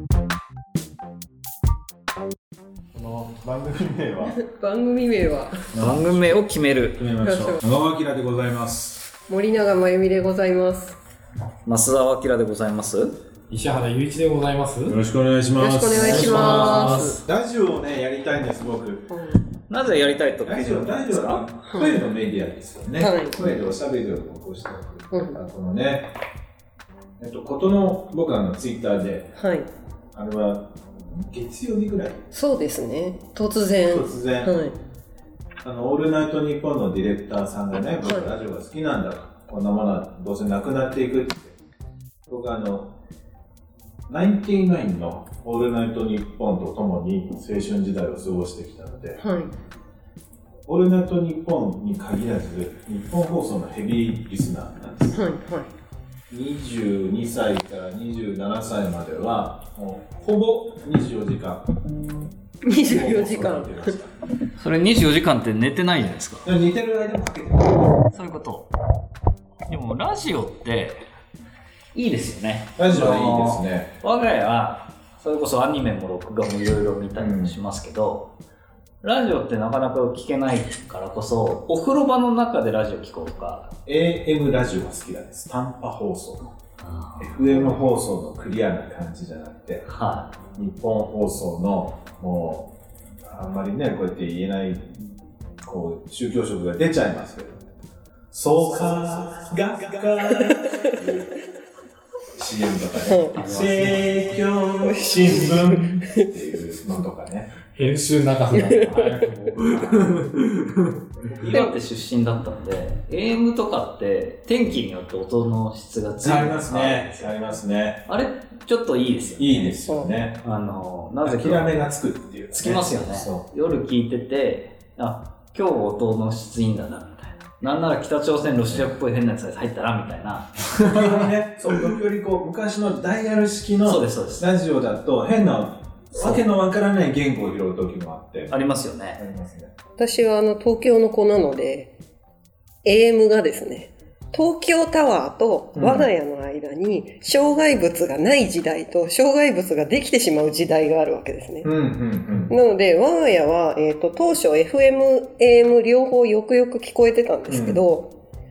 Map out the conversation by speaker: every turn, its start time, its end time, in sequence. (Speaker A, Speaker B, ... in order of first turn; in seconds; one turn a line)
Speaker A: 2.9-4.4
Speaker B: 4.2-5.6
Speaker A: 5.7-6.3
Speaker C: 5.8-7.1
Speaker A: 7.0-9.1
Speaker B: 7.2-7.6
Speaker B: 9.3-11.0
Speaker C: 11.6-13.2
Speaker D: 13.5-15.0
Speaker A: 14.9-19.1
Speaker B: 15.6-17.2
Speaker D: 16.0-17.1
Speaker C: 16.4-16.8
Speaker B: 19.1-19.4
Speaker C: 19.7-21.5
Speaker A: 20.4-26.1
Speaker B: 21.7-22.0
Speaker B: 23.0-23.4
Speaker B: 25.1-25.4
Speaker A: 27.2-29.3
Speaker B: 29.4-29.7
Speaker A: 30.1-32.2
Speaker B: 32.3-34.7
Speaker A: 33.8-34.6
Speaker A: 35.6-41.6
Speaker A: 42.3-42.9
Speaker A: 44.1-49.2
Speaker B: 49.2-49.5
Speaker A: 50.7-55.2
Speaker B: 55.1-55.7
Speaker A: 56.3-61.7
Speaker B: 62.6-63.9
Speaker A: 62.7-64.1
Speaker C: 64.6-66.5
Speaker A: 66.4-68.0
Speaker C: 68.1-68.7
Speaker C: 69.7-71.0
Speaker C: 71.9-78.3
Speaker A: 72.8-73.9
Speaker A: 77.2-77.5
Speaker C: 79.0-83.7
Speaker A: 83.9-86.5
Speaker C: 86.8-87.6
Speaker A: 87.2-89.8
Speaker C: 89.9-90.3
Speaker A: 90.5-92.7
Speaker A: 93.3-95.0
Speaker A: 95.6-97.6
Speaker A: 98.3-101.4
Speaker A: 102.3-107.5
Speaker B: 103.1-103.3
Speaker D: 103.4-104.0
Speaker B: 104.8-106.2
Speaker D: 107.8-111.0
Speaker B: 108.5-109.0
Speaker C: 111.4-117.3
Speaker A: 116.2-118.0
Speaker C: 118.1-119.8
Speaker A: 119.4-120.4
Speaker B: 119.9-120.1
Speaker C: 120.4-121.7
Speaker A: 121.2-123.4
Speaker C: 122.5-130.6
Speaker A: 130.8-138.6
Speaker D: 130.8-131.1
Speaker C: 133.8-134.4
Speaker C: 138.5-139.2
Speaker A: 139.2-139.7
Speaker B: 140.0-141.9
Speaker B: 142.8-151.7
Speaker A: 145.8-146.1
Speaker A: 151.6-152.5
Speaker B: 152.5-158.1
Speaker A: 157.5-157.8